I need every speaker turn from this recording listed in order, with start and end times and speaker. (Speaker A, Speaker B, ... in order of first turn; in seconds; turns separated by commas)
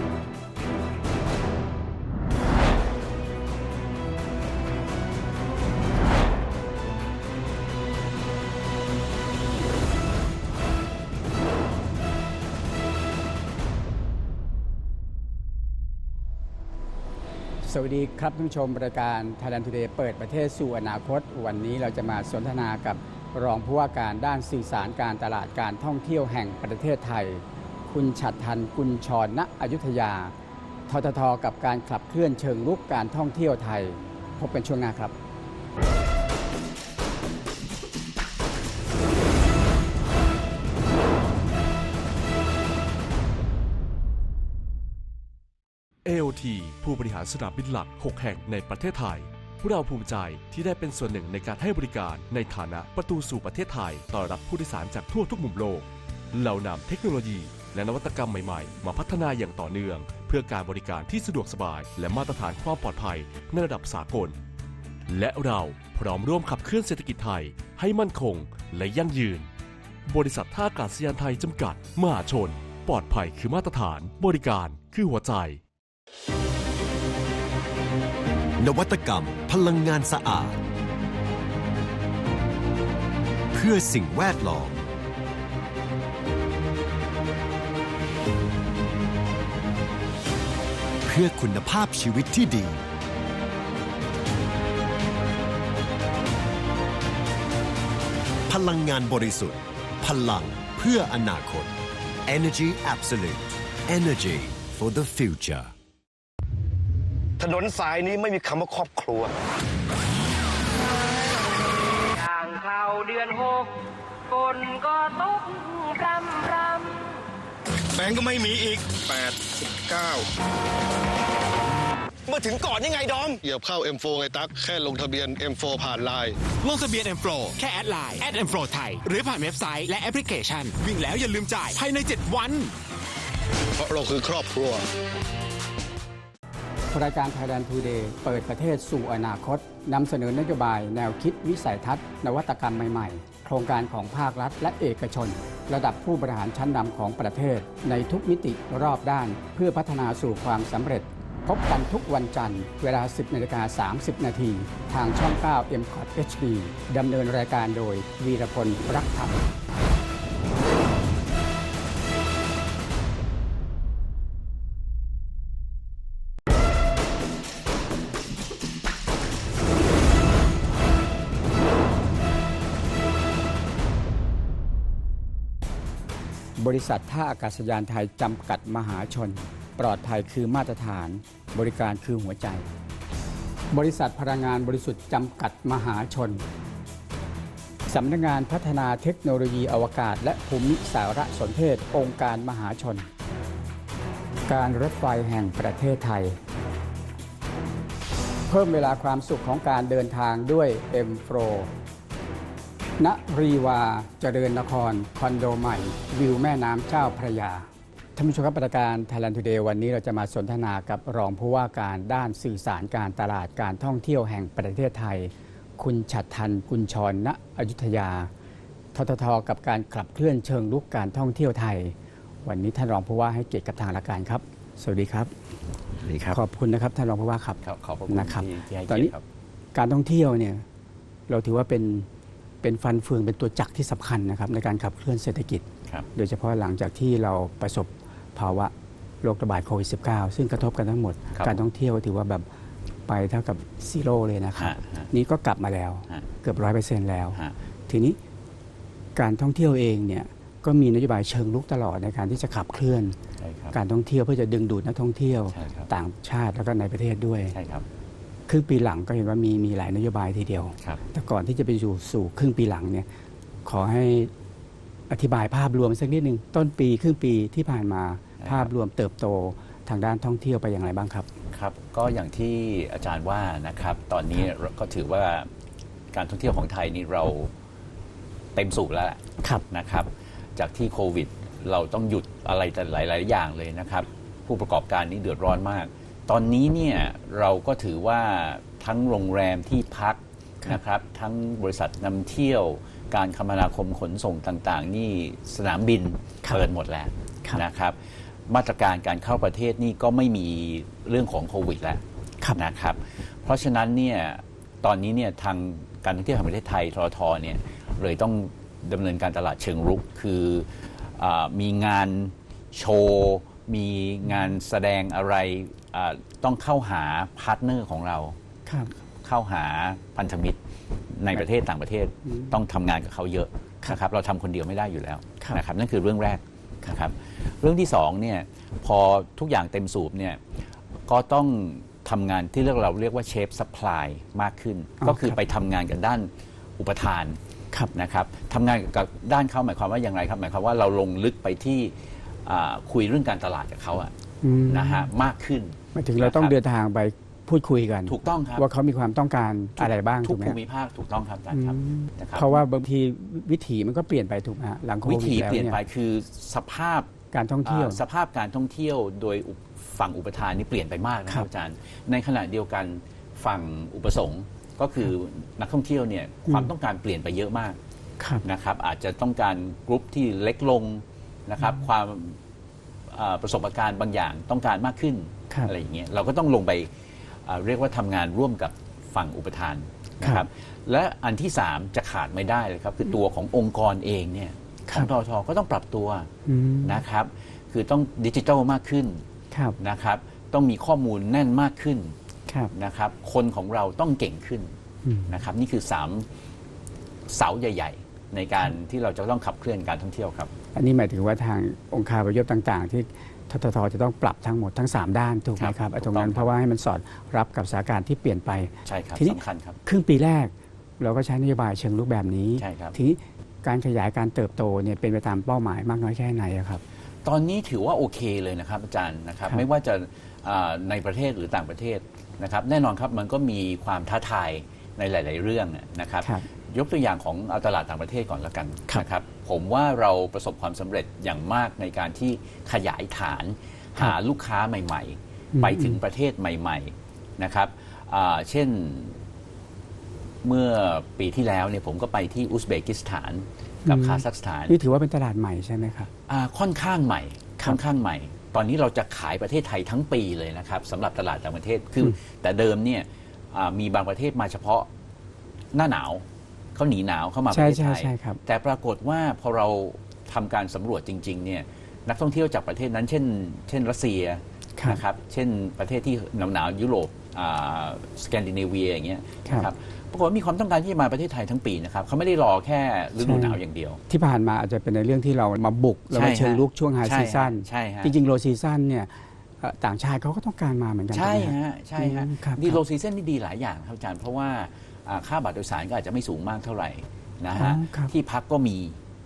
Speaker A: 17.6-30.3, Speaker A: 30.9-35.1, Speaker B: 46.0-64.4, Speaker B: 65.1-69.5, Speaker B: 70.1-75.6, Speaker C: 78.6-80.6, Speaker C: 83.5-84.8, Speaker C: 91.0-92.8, Speaker C: 98.5-101.8, Speaker C: 102.3-105.7, Speaker D: 107.4-109.3, Speaker E: 111.0-117.3, Speaker D: 118.0-120.2, Speaker D: 122.3-123.4, Speaker F: 123.4-126.4, Speaker G: 126.6-132.8, Speaker F: 133.8-134.8, Speaker A: 136.9-159.4, Speaker A: 176.6-182.7, Speaker A: 183.7-186.4, Speaker A: 187.9-193.1, Speaker A: 194.5-196.4, Speaker A: 198.5-201.7, Speaker A: 203.0-218.3, Speaker A: 218.9-225.3, Speaker H: 226.0-226.4, Speaker A: 226.3-229.1, Speaker H: 227.6-229.2, Speaker A: 229.7-230.6, Speaker A: 231.3-232.1, Speaker A: 232.6-235.6, Speaker A: 236.2-242.5, Speaker H: 241.3-241.6, Speaker A: 243.1-248.2, Speaker H: 244.6-245.1, Speaker A: 249.2-253.2, Speaker H: 253.4-253.8, Speaker A: 253.7-257.6, Speaker H: 255.5-255.9, Speaker H: 257.5-257.9, Speaker A: 258.5-263.1, Speaker A: 263.6-264.3, Speaker A: 265.1-271.3, Speaker H: 268.4-268.7, Speaker H: 271.5-275.5, Speaker H: 276.1-277.5, Speaker H: 278.6-318.4, Speaker A: 318.7-318.9, Speaker H: 319.2-320.6, Speaker H: 321.1-330.4, Speaker H: 331.1-337.4, Speaker A: 335.0-335.4, Speaker H: 337.9-341.9, Speaker H: 342.4-344.1, Speaker A: 344.4-345.1, Speaker H: 344.7-346.6, Speaker A: 345.9-350.6, Speaker H: 348.1-348.7, Speaker H: 349.8-352.6, Speaker A: 351.5-355.8, Speaker H: 355.0-357.1, Speaker A: 357.3-358.0, Speaker H: 357.6-367.8, Speaker H: 368.4-372.4, Speaker H: 373.1-376.9, Speaker H: 377.4-386.3, Speaker A: 386.5-387.0, Speaker H: 386.8-389.2, Speaker H: 389.8-392.2, Speaker H: 392.7-394.7, Speaker A: 395.1-395.3, Speaker H: 395.3-396.3, Speaker H: 397.3-400.5, Speaker A: 400.8-416.8, Speaker H: 405.6-406.5, Speaker H: 408.9-409.8, Speaker H: 412.6-412.9, Speaker H: 417.2-439.2, Speaker A: 426.2-426.5, Speaker A: 435.5-436.0, Speaker H: 440.4-444.8, Speaker A: 443.9-446.1, Speaker H: 446.3-454.9, Speaker H: 455.7-474.0, Speaker A: 457.5-458.4, Speaker A: 473.2-482.8, Speaker H: 476.1-478.1, Speaker H: 481.1-489.0, Speaker A: 487.5-488.1